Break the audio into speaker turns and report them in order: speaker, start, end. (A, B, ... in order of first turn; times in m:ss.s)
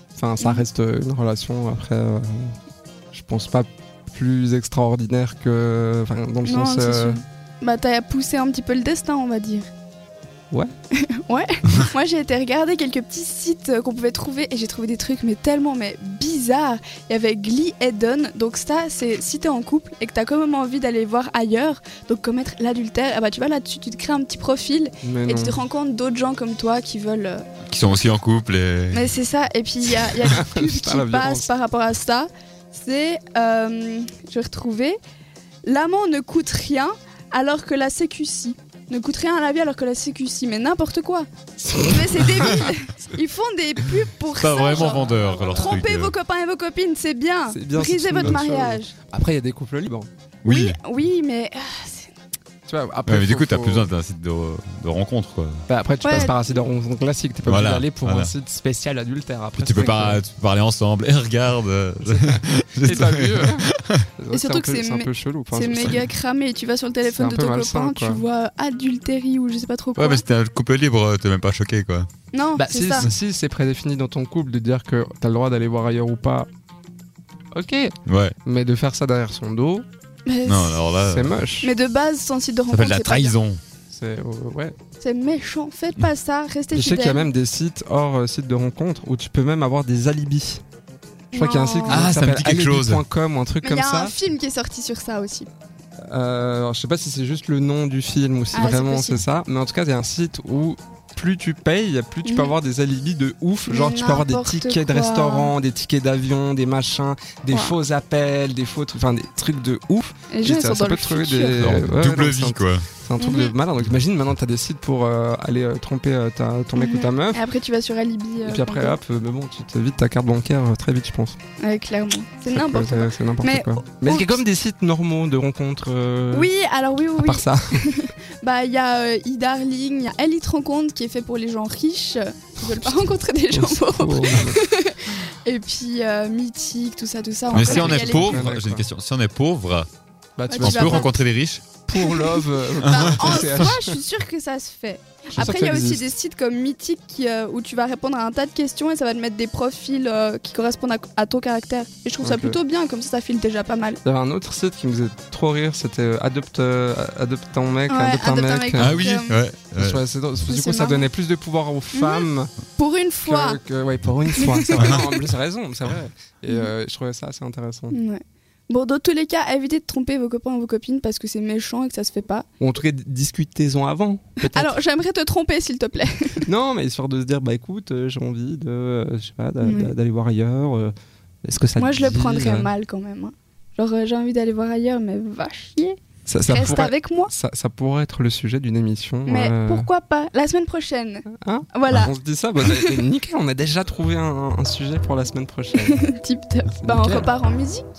0:00.2-0:02.5 A
0:00.4-0:00.6 B
0:03.1-0:07.2 A
0:06.4-0:09.7 B
0:11.0-0:27.4 B
0:25.0-0:25.6 A
0:27.7-0:29.1 C
0:28.9-0:35.0 B
0:30.2-0:31.5 A
0:35.6-0:48.9 B
0:41.6-0:42.7 A
0:44.4-0:46.1 C
0:47.5-0:50.1 A
0:50.4-0:50.8 C
0:50.4-0:52.1 B
0:52.7-0:53.9 A
0:53.0-0:55.6 C
0:55.7-1:00.2 A
0:56.0-0:56.3 B
0:57.4-0:58.3 C
0:59.6-1:04.0 C
1:02.0-1:03.7 A
1:04.2-1:06.1 A
1:04.3-1:10.2 B
1:07.0-1:08.2 A
1:10.0-1:12.1 C
1:12.3-1:13.1 B
1:12.6-1:16.5 A
1:17.5-1:19.8 A
1:18.1-1:18.4 C
1:20.2-1:20.8 B
1:20.4-1:21.4 C
1:21.0-1:21.7 A
1:21.6-1:23.4 B
1:22.7-1:23.6 C
1:23.9-1:24.7 A
1:25.0-1:27.3 B
1:26.7-1:30.6 A
1:31.3-1:32.1 B
1:31.3-1:34.1 A
1:31.9-1:33.0 C
1:33.6-1:35.5 B
1:36.0-1:57.4 A
1:38.5-1:39.2 B
1:42.2-1:42.5 B
1:43.7-1:45.5 B
1:47.5-1:47.7 B
1:50.3-1:51.6 B
1:51.6-1:52.9 C
1:53.2-1:53.5 B
1:56.8-1:59.0 B
1:58.4-2:01.4 A
2:01.6-2:04.4 B
2:02.5-2:06.5 A
2:06.3-2:18.4 B
2:07.2-2:08.0 A
2:12.8-2:14.6 A
2:17.5-2:19.9 C
2:17.5-2:18.9 A
2:20.4-2:21.2 A
2:20.5-2:21.1 B
2:20.6-2:21.7 C
2:21.9-2:24.0 A
2:21.9-2:34.0 B
2:22.9-2:23.1 C
2:25.3-2:26.1 A
2:32.2-2:32.6 A
2:34.0-2:39.0 A
2:37.9-2:39.4 B
2:38.8-2:40.0 C
2:39.7-2:42.5 A
2:40.4-2:41.1 B
2:41.9-2:43.6 B
2:43.2-2:48.0 A
2:44.4-2:45.0 B
2:47.9-2:52.4 B
2:52.6-2:54.8 A
2:54.4-2:56.4 B
2:56.4-3:00.9 A
2:59.6-2:59.9 B
3:01.4-3:02.7 A
3:01.8-3:07.3 B
3:06.3-3:09.9 A
3:09.2-3:13.0 B
3:11.4-3:16.1 A
3:15.8-3:17.9 B
3:16.8-3:17.3 A